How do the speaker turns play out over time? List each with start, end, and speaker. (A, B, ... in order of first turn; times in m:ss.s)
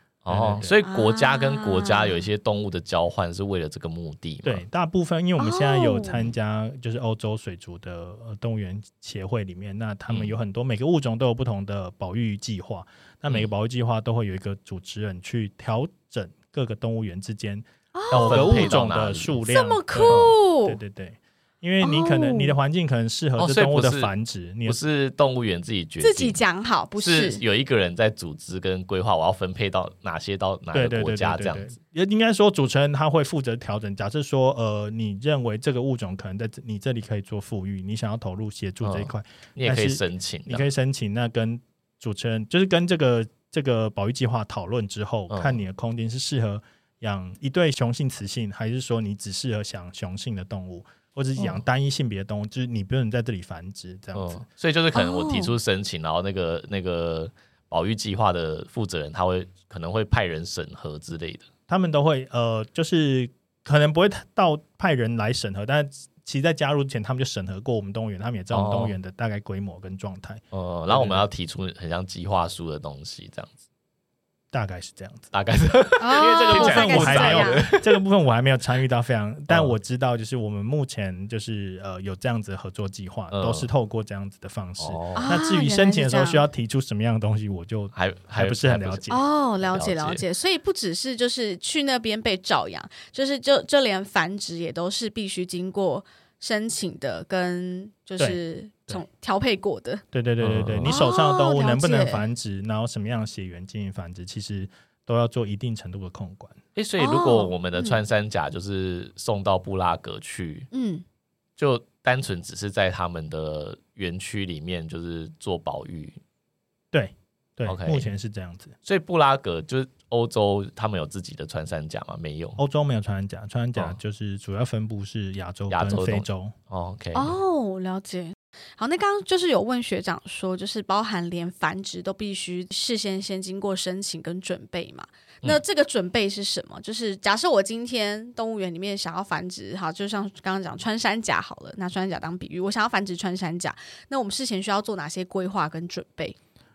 0:00.2-0:04.6 A
0:00.3-0:00.8 B
0:00.8-0:02.2 C
0:04.4-0:24.8 B
0:05.4-0:06.3 C
0:10.1-0:10.3 A
0:17.9-0:18.8 C
0:18.1-0:19.4 A
0:19.4-0:20.8 C
0:20.1-0:20.4 A
0:21.8-0:22.6 C
0:23.4-0:24.1 A
0:24.6-0:26.4 A
0:26.0-0:27.4 C
0:27.0-0:31.7 A
0:30.7-0:54.4 B
0:38.8-0:40.6 A
0:45.3-0:45.6 A
0:54.1-1:01.5 A
0:54.9-0:55.5 C
1:01.7-1:11.3 B
1:08.5-1:09.0 A
1:10.5-1:13.6 A
1:14.5-1:15.3 B
1:15.3-1:18.0 A
1:16.0-1:17.6 C
1:16.1-1:29.2 B
1:23.3-1:23.7 A
1:24.8-1:25.3 A
1:25.1-1:26.4 C
1:27.9-1:29.1 A
1:29.1-1:40.0 C
1:29.6-1:30.2 A
1:38.2-1:39.0 B
1:40.1-1:46.6 B
1:40.4-1:41.0 A
1:40.8-1:42.2 C
1:46.7-1:50.7 A
1:47.0-1:48.0 C
1:50.7-1:51.0 C
1:51.6-1:56.2 A
1:56.9-1:58.7 B
1:57.6-1:58.1 A
1:58.8-2:02.6 A
2:02.6-2:06.5 B
2:05.7-2:07.4 A
2:07.1-2:26.4 C